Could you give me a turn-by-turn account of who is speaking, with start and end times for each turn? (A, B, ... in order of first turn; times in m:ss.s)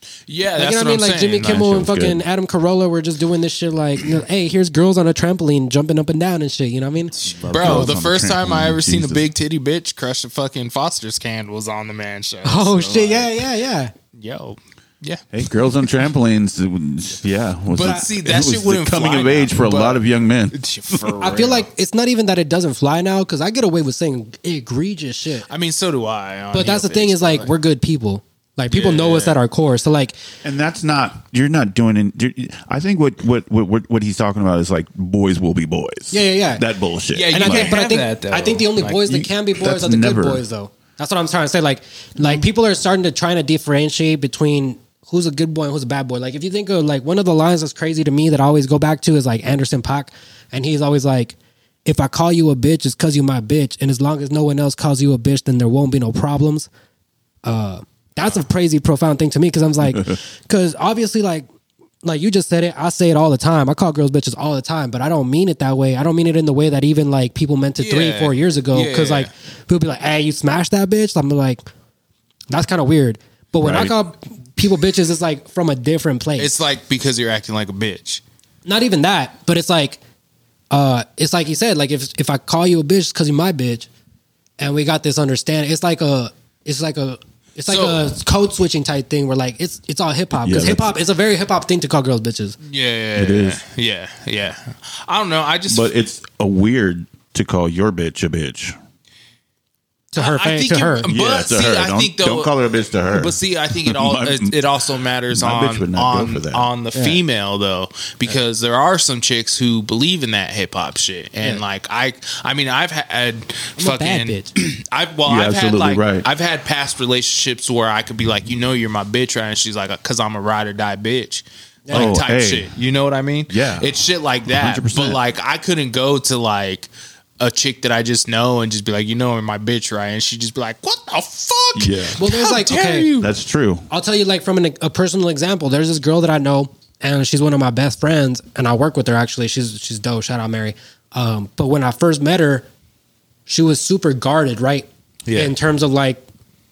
0:00.3-0:01.7 A
0:00.5-0:07.9 B
0:01.4-0:02.2 C
0:07.1-0:13.5 A
0:07.2-0:09.2 C
0:12.4-0:13.9 B
0:14.1-0:15.2 A
0:15.3-0:21.0 C
0:17.7-0:21.7 A
0:17.8-0:18.0 B
0:21.2-0:25.5 B
0:25.5-0:27.5 A
0:26.5-0:30.2 B
0:28.7-0:29.4 A
0:30.4-0:37.8 C
0:36.1-0:36.6 B
0:37.1-0:39.3 A
0:37.3-0:56.7 B
0:39.6-0:40.4 C
0:57.4-1:01.5 B
1:02.0-1:11.6 B
1:07.8-1:09.3 A
1:12.5-1:16.5 B
1:13.6-1:13.9 C
1:16.4-1:18.2 A
1:18.6-1:20.0 B
1:20.7-1:23.9 B
1:24.6-1:32.6 B
1:27.7-1:28.1 A
1:30.3-1:30.9 C
1:32.6-1:35.9 A
1:33.1-1:33.6 C
1:35.7-1:38.8 C
1:40.1-1:41.1 B
1:40.2-2:13.3 A
1:41.1-1:44.7 C
1:45.3-1:46.7 C
1:46.9-1:47.2 B
1:53.8-1:54.5 B
1:55.2-1:56.2 C
2:01.8-2:02.1 B
2:01.9-2:02.7 C
2:03.5-2:05.2 C
2:11.7-2:12.3 C
2:12.2-2:13.1 B
2:13.2-2:13.9 C
2:13.9-2:22.7 B
2:23.5-2:26.2 B
2:25.3-2:25.5 A